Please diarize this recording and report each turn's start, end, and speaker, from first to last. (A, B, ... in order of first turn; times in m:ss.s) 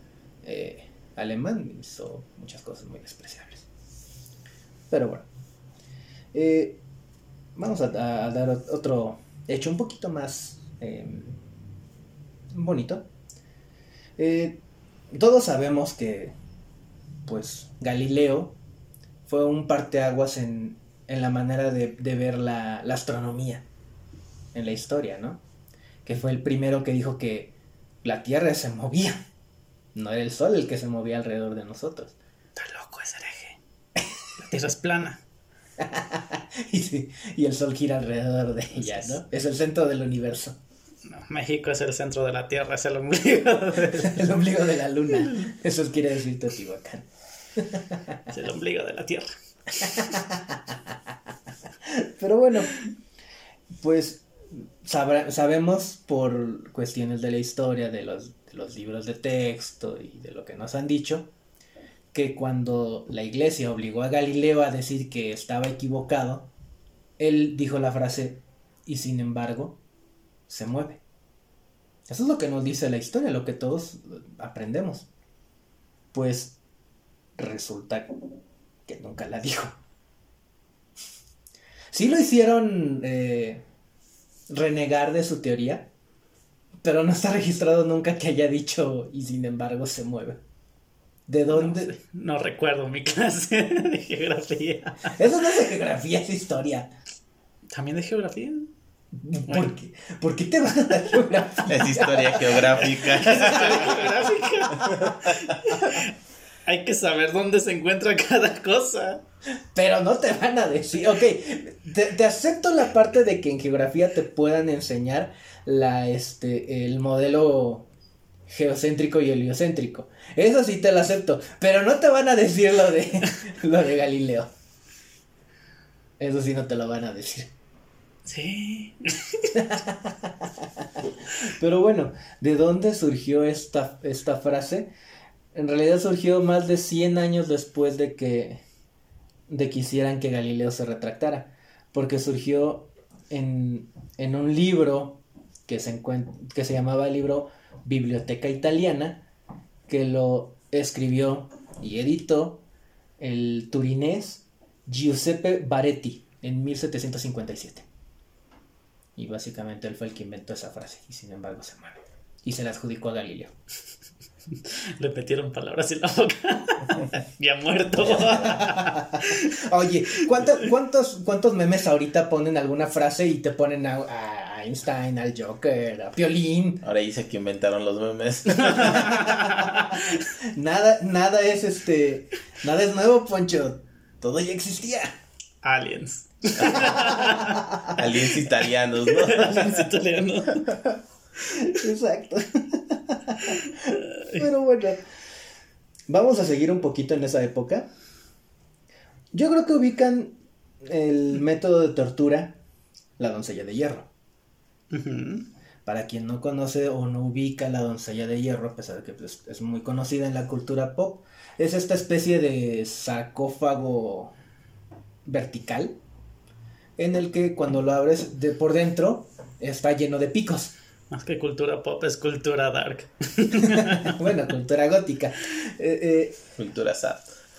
0:00.4-0:03.7 A
0:04.9-0:05.3 A
0:06.3-0:06.8 A
0:07.5-0:11.4 A
0:12.5-0:13.1 A
0:14.2-0:16.3 A
0:17.2-0:18.6 A
0:19.2-0:23.6 A
0:24.5-0:25.4 A
0:26.0-0:29.2 A
0:29.9-0:32.2 A
0:32.6-0:33.6 B
0:34.4-0:35.2 B
0:35.8-0:40.6 A
0:38.8-0:39.2 B
0:41.0-0:44.2 B
0:43.9-0:48.1 A
0:45.1-0:45.5 B
0:48.3-0:50.0 B
0:49.8-0:50.7 A
0:51.8-0:52.7 A
0:53.8-1:01.3 A
1:02.1-1:06.5 A
1:07.2-1:09.8 A
1:10.5-1:11.0 A
1:12.1-1:15.1 A
1:16.1-1:16.6 A
1:17.4-1:18.3 A
1:18.8-1:19.8 A
1:21.9-1:23.6 A
1:24.5-1:25.9 A
1:26.8-1:30.4 A
1:31.3-1:31.9 A
1:31.5-1:35.2 B
1:35.1-1:36.9 A
1:37.7-1:38.7 B
1:39.1-1:42.9 A
1:41.6-1:44.0 C
1:42.8-1:46.1 B
1:43.4-1:43.8 A
1:44.8-1:45.1 A
1:45.0-1:45.3 C
1:46.6-1:49.2 B
1:49.7-1:57.9 A
1:58.5-2:04.5 A
2:06.2-2:07.5 A
2:08.2-2:09.6 B
2:09.5-2:14.9 A
2:15.5-2:18.6 A
2:19.5-2:29.2 A
2:29.9-2:32.6 A
2:33.2-2:37.8 A
2:39.2-2:43.5 A
2:44.6-2:49.6 B
2:48.2-2:56.8 A
2:56.8-2:59.4 C
2:58.7-3:00.0 B
2:58.8-3:05.1 A
3:05.6-3:07.7 B
3:06.9-3:08.0 A
3:07.9-3:09.9 C
3:09.1-3:10.8 B
3:11.5-3:13.7 A
3:13.5-3:14.4 B
3:14.3-3:15.0 A
3:16.1-3:17.9 A
3:19.3-3:22.6 A
3:23.2-3:24.1 A
3:24.9-3:25.5 B
3:25.8-3:34.3 A
3:35.2-3:36.0 A
3:37.0-3:40.7 A
3:41.1-3:44.2 B
3:43.6-3:46.4 A
3:46.6-3:47.3 C